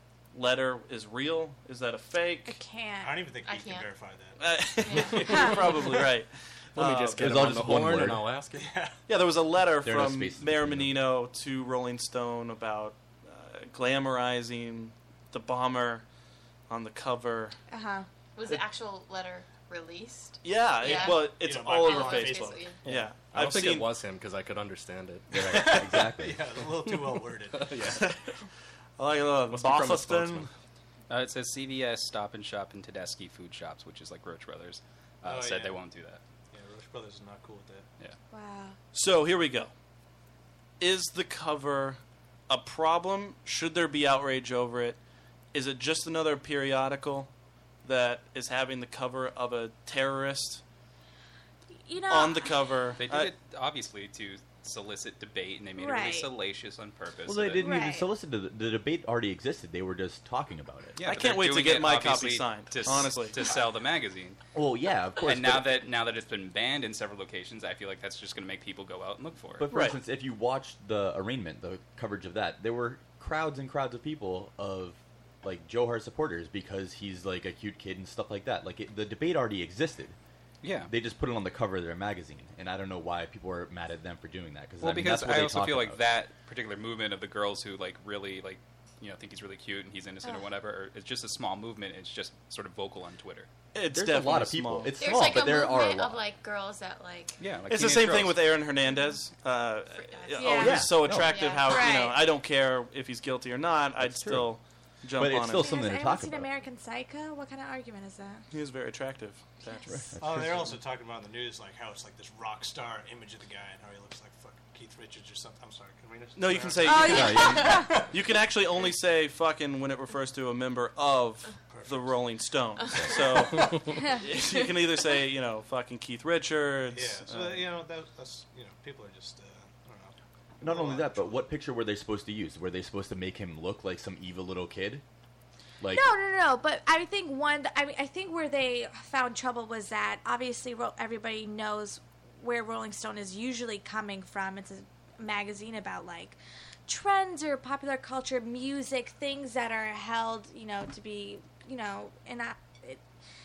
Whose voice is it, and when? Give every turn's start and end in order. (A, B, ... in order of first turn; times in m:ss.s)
0:00.3-0:02.6 A
0:02.5-0:03.2 B
0:03.0-0:06.1 C
0:03.4-0:03.9 D
0:04.4-0:07.8 A
0:04.8-0:05.5 D
0:06.8-0:08.7 E
0:07.2-0:08.3 F
0:08.5-0:08.9 C
0:09.1-0:16.0 A
0:09.8-0:11.0 F
0:16.7-0:17.6 A
0:17.7-0:18.1 B
0:18.4-0:22.8 D
0:20.4-0:23.9 A
0:20.8-0:22.7 C
0:23.3-0:25.7 E
0:25.3-0:26.4 F
0:25.3-0:27.9 C
0:26.8-0:28.1 E
0:28.0-0:28.3 A
0:29.0-0:30.5 A
0:29.5-0:30.5 E
0:31.1-0:36.2 G
0:35.2-0:35.8 C
0:36.5-0:37.9 C
0:38.3-0:38.8 B
0:38.9-0:39.7 A
0:40.8-0:45.0 A
0:45.5-0:47.3 A
0:47.8-0:50.6 A
0:51.8-0:52.6 B
0:52.1-0:53.3 A
0:53.0-0:57.7 G
0:55.8-0:56.3 B
0:57.3-1:01.0 F
0:57.6-0:58.1 B
1:01.0-1:04.4 G
1:01.0-1:03.5 A
1:04.5-1:05.8 F
1:05.2-1:09.7 G
1:09.6-1:20.2 F
1:09.7-1:10.0 A
1:20.6-1:20.9 G
1:20.9-1:26.0 F
1:24.8-1:33.5 G
1:33.8-1:35.0 A
1:33.9-1:36.2 F
1:35.0-1:37.4 D
1:37.4-1:38.4 G
1:37.7-1:45.8 A
1:39.9-1:42.1 D
1:40.4-1:40.8 B
1:40.6-1:41.4 F
1:41.6-1:42.2 B
1:44.0-1:44.5 F
1:45.2-1:46.5 F
1:45.5-1:48.4 B
1:48.5-1:49.9 A
1:49.9-1:50.8 F
1:50.2-1:58.1 C
1:56.4-2:07.7 A
1:56.8-1:58.0 B
1:56.9-1:58.0 F
2:01.7-2:02.2 C
2:03.0-2:03.2 F
2:06.9-2:11.4 C
2:10.6-2:15.0 F
2:15.8-2:16.2 F
2:15.9-2:33.0 B